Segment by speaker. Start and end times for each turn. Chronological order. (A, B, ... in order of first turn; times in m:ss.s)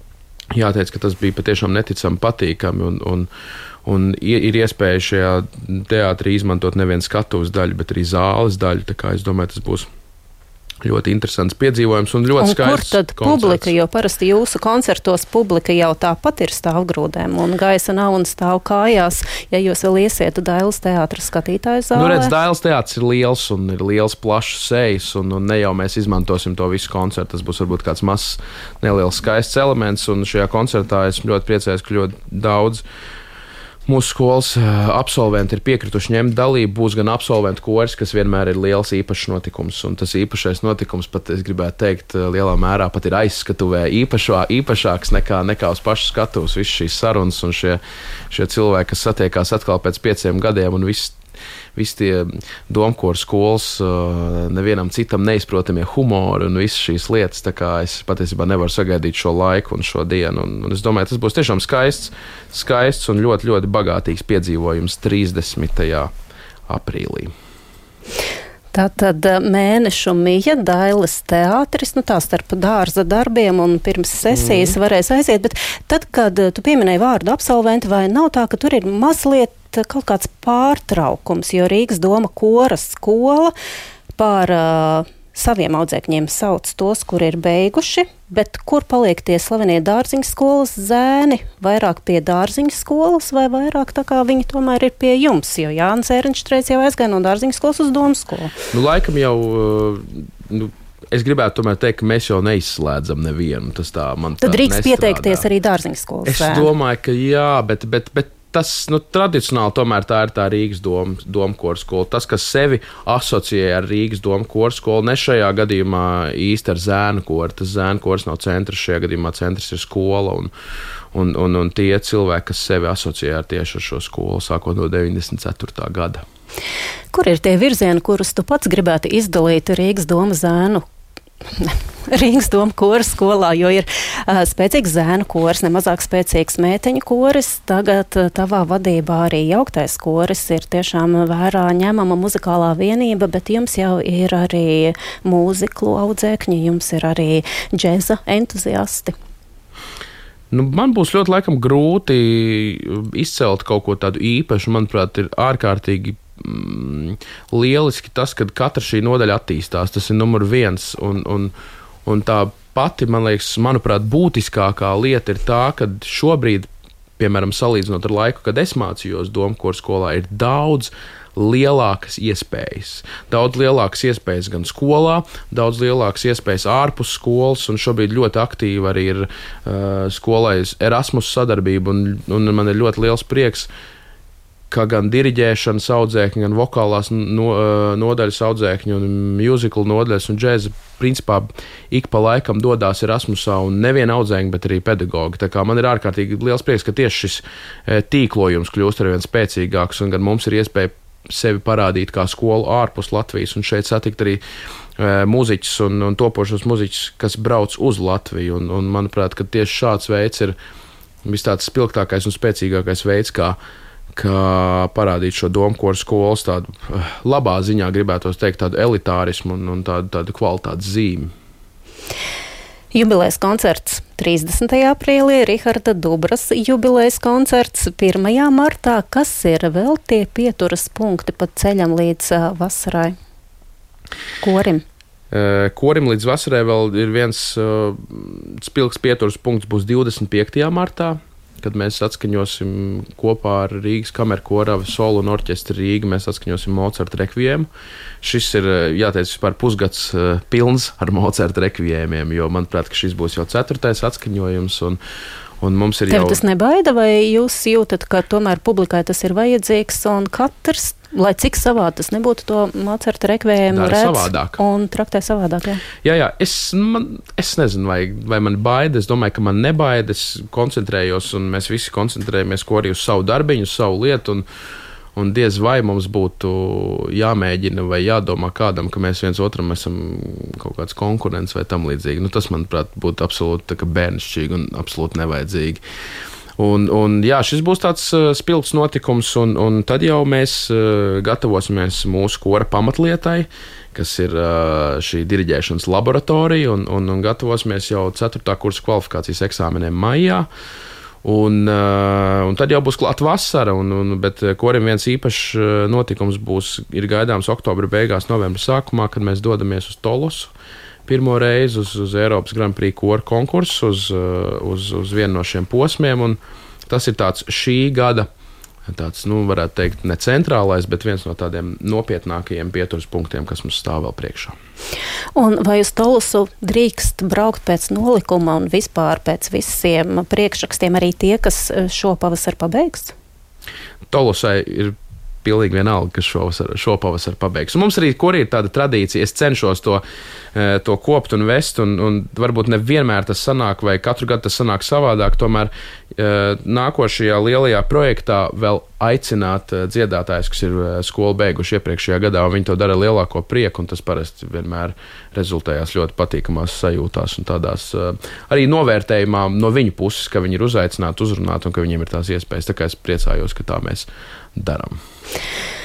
0:00.5-0:03.3 A
0:03.8-0:09.9 A
0:10.8-0:13.7 A
0:12.4-0:22.3 B
0:22.0-0:32.8 A
0:33.9-0:51.2 A
0:51.8-1:06.1 A
1:06.7-1:07.3 A
1:08.7-1:23.5 B
1:14.3-1:14.8 A
1:24.2-1:38.5 B
1:38.7-1:45.4 A
1:44.4-1:46.7 B
1:46.3-2:00.5 A
2:01.1-2:06.2 A
2:07.1-2:10.8 B
2:11.5-2:29.1 B
2:30.5-2:41.5 A
2:42.0-3:03.7 A
3:04.7-3:24.4 A
3:25.0-3:30.6 A
3:31.2-3:33.6 A
3:34.2-3:41.3 A
3:42.9-3:53.2 B
3:54.4-3:54.8 B
3:55.3-4:07.7 A
4:08.2-4:15.0 A
4:15.6-4:16.4 A
4:16.1-4:25.8 B
4:23.7-4:24.6 A
4:26.0-4:34.5 A
4:35.2-4:45.8 A
4:46.6-5:00.5 A
5:01.2-5:10.5 A
5:11.1-5:18.3 A
5:18.9-5:24.6 A
5:25.4-5:33.1 B
5:34.1-5:40.0 A
5:40.6-6:05.0 A